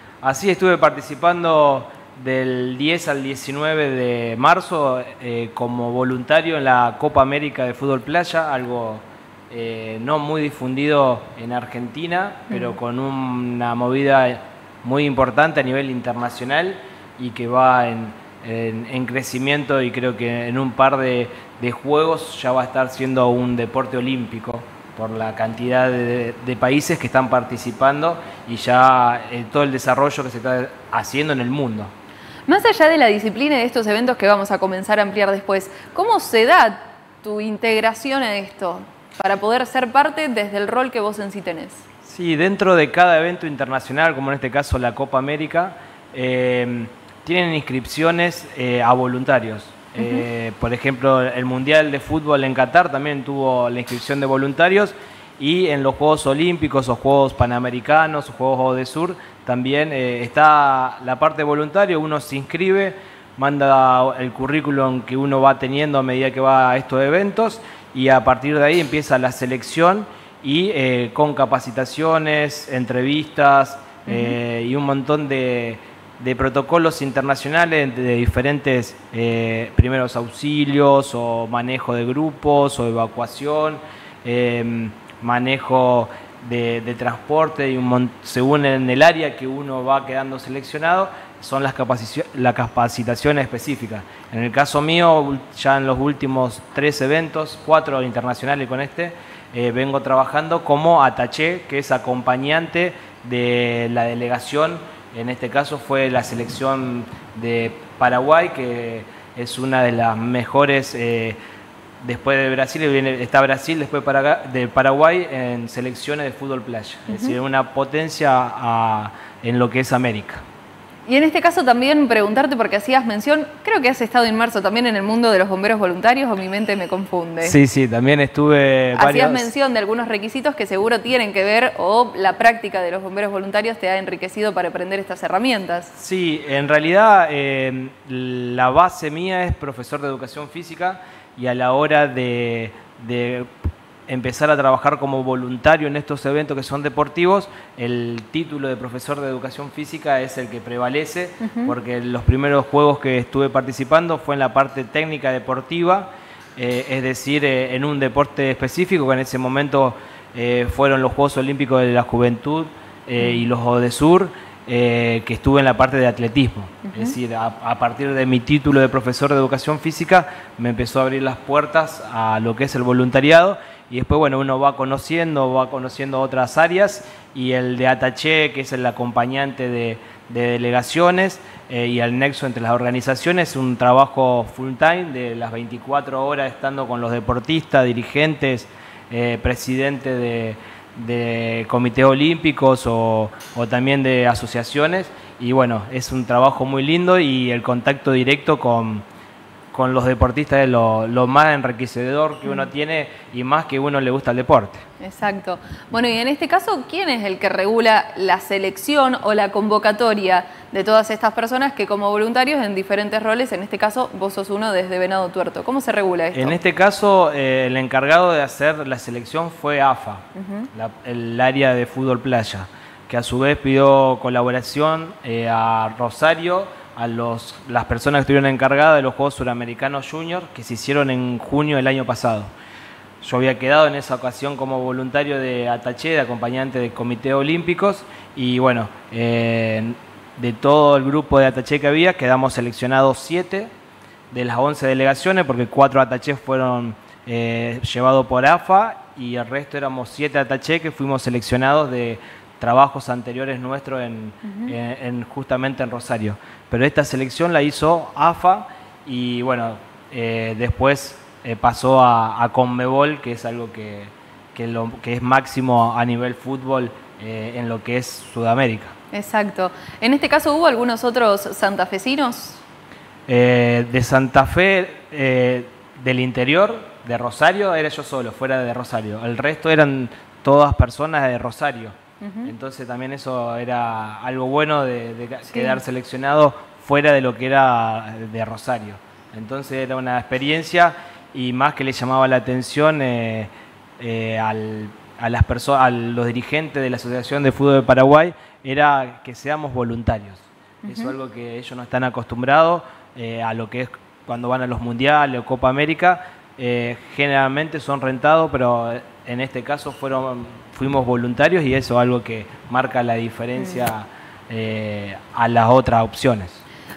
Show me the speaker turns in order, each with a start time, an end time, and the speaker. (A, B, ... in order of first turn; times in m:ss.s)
0:00.2-0:31.9 A
0:12.5-0:12.8 B
0:32.5-0:41.8 B
0:42.0-1:51.4 A
0:50.0-0:50.2 B
1:14.1-1:14.4 B
1:52.0-2:00.4 A
1:57.1-1:57.3 B
2:01.1-2:07.6 B
2:07.4-2:09.5 A
2:08.9-2:15.9 B
2:16.0-2:23.5 A
2:24.1-3:19.0 A
2:31.4-2:31.7 B
2:43.2-2:43.4 B
2:46.9-2:47.1 B
3:19.7-3:24.8 A
3:25.0-3:36.5 B
3:36.3-3:52.5 A
3:40.4-3:40.7 B
3:53.2-4:03.7 A
4:04.3-4:28.9 A
4:14.4-4:14.7 B
4:29.1-4:32.6 B
4:33.3-5:16.6 A
4:42.2-4:42.5 B
4:45.5-4:45.8 B
5:00.8-5:01.1 B